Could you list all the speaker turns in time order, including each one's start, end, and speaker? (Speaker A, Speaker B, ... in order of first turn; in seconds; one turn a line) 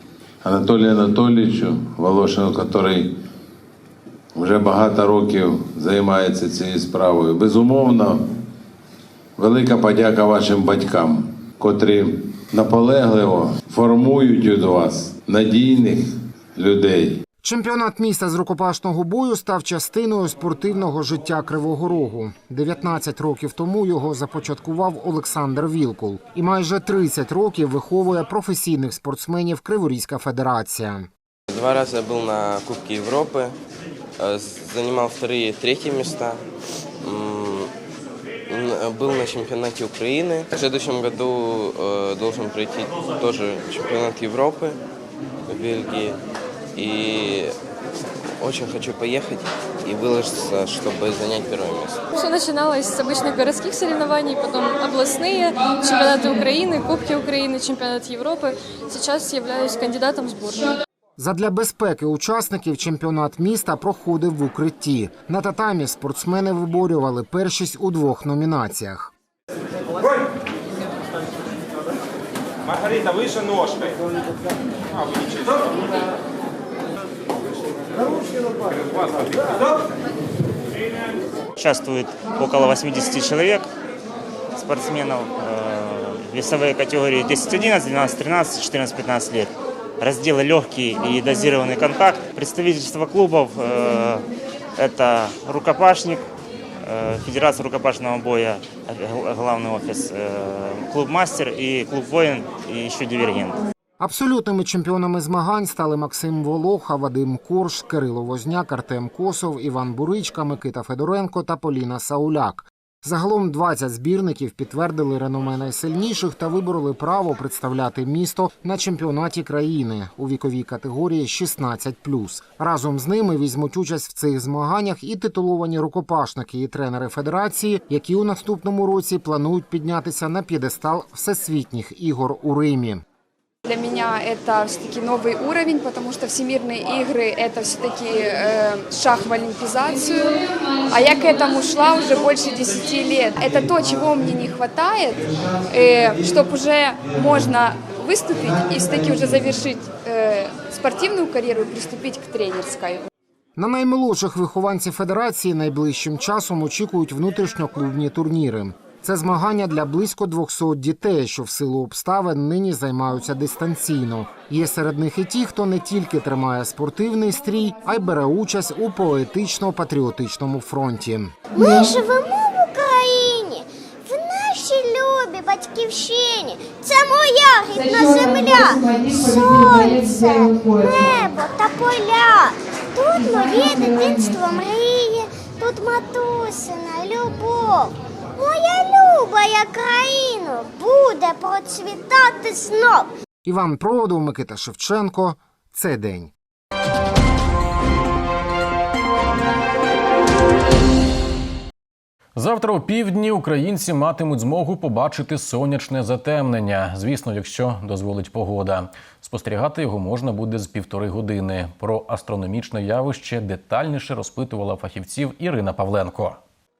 Speaker A: 0.4-3.2
Speaker A: 4.3-8.3
Speaker A: 9.4-17.2
Speaker B: 17.4-31.1
Speaker C: 31.5-33.5
Speaker C: 34.2-36.4
Speaker C: 37.0-37.7
Speaker C: 38.5-44.8
Speaker C: 45.5-46.2
Speaker C: 46.8-47.5
Speaker C: 48.4-52.0
Speaker D: 52.1-60.8
Speaker B: 61.2-69.1
Speaker E: 81.6-83.7
Speaker E: 84.5-94.2
Speaker E: 94.8-96.2
Speaker E: 96.8-103.6
Speaker B: 104.0-133.0
Speaker F: 133.7-145.1
Speaker F: 145.7-153.1
Speaker B: 153.6-171.4
Speaker G: 171.5-193.1
Speaker F: 177.7-181.2
Speaker F: 183.2-184.4
Speaker B: 193.4-196.3
Speaker H: 202.3-216.4